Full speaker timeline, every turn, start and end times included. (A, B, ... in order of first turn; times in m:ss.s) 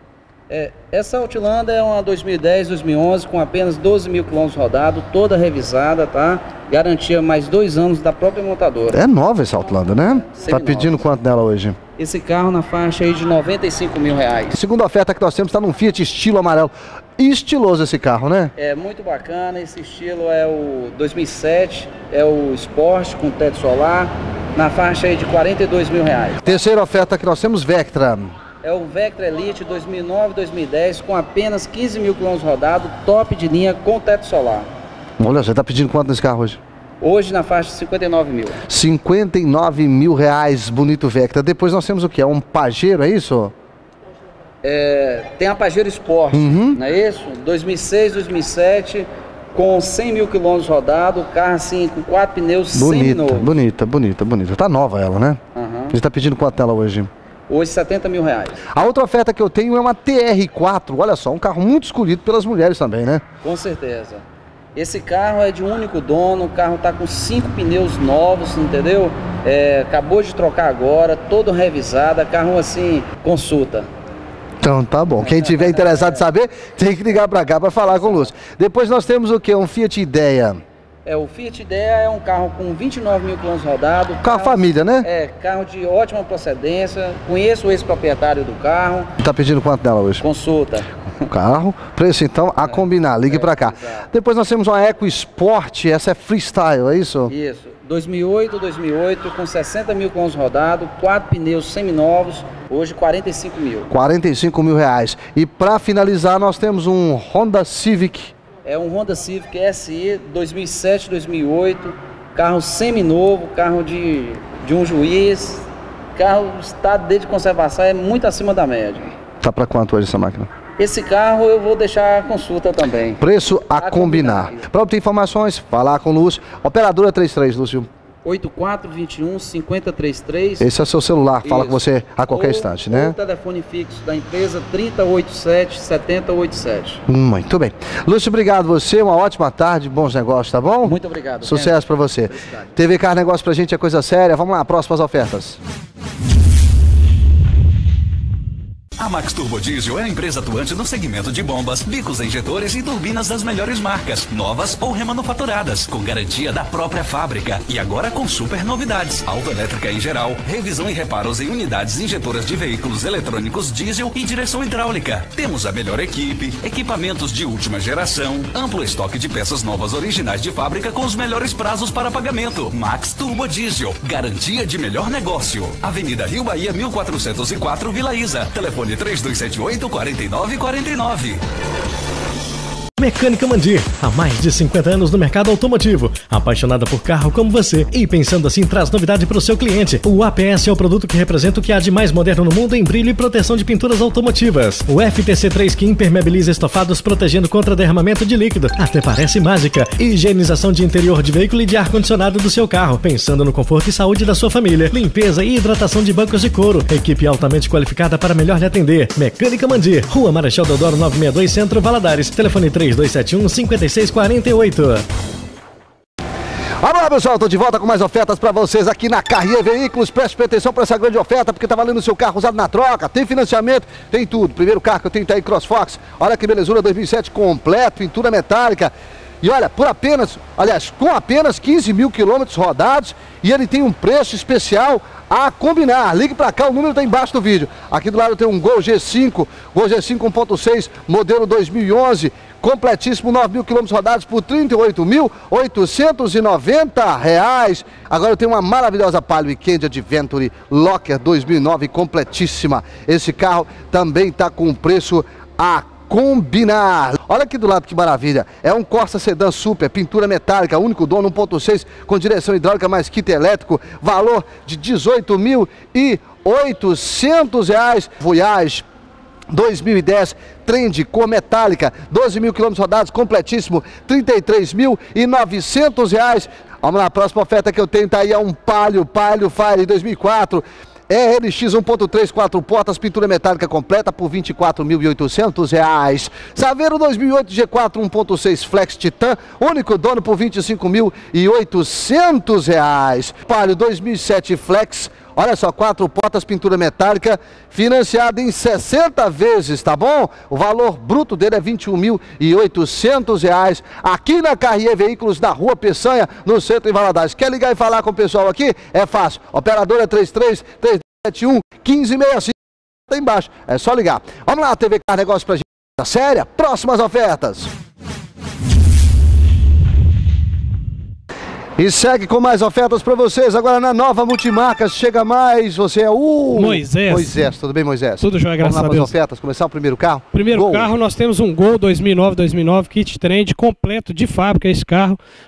0:00.5-0:09.0 A
0:08.9-0:11.8 B
0:10.0-0:11.0 A
0:12.0-0:14.6 A
0:14.5-0:18.5 B
0:18.6-0:26.6 A
0:26.4-0:28.3 B
0:28.6-0:34.7 A
0:35.2-0:36.6 B
0:37.0-0:38.6 A
0:38.7-0:43.5 B
0:44.6-0:53.5 A
0:46.3-0:46.8 B
0:52.7-0:55.4 B
0:55.5-0:56.0 A
0:55.9-0:57.1 B
0:57.5-0:58.7 A
0:58.7-1:03.2 B
1:03.4-1:04.2 A
1:04.7-1:13.9 A
1:14.6-1:20.6 B
1:15.2-1:16.2 A
1:17.8-1:18.3 A
1:21.0-1:29.1 A
1:24.2-1:25.1 B
1:29.2-1:30.2 B
1:30.2-1:31.0 A
1:31.3-1:37.3 B
1:32.7-1:34.0 A
1:37.3-1:43.9 A
1:43.9-1:48.3 B
1:48.6-1:59.1 A
1:59.4-2:00.5 B
2:00.8-2:03.2 A
2:03.2-2:07.9 B
2:03.8-2:04.6 A
2:08.2-2:10.7 A
2:10.6-2:13.1 B
2:11.4-2:17.0 A
2:17.1-2:25.6 B
2:20.8-2:22.7 A
2:29.0-3:01.4 C
3:03.0-3:35.0 D
3:36.8-4:28.8 B
4:29.5-5:12.5 B
5:13.1-5:17.7 B
5:21.8-5:30.9 B
5:26.5-5:27.5 E
5:28.2-5:29.1 E
5:30.3-5:35.2 E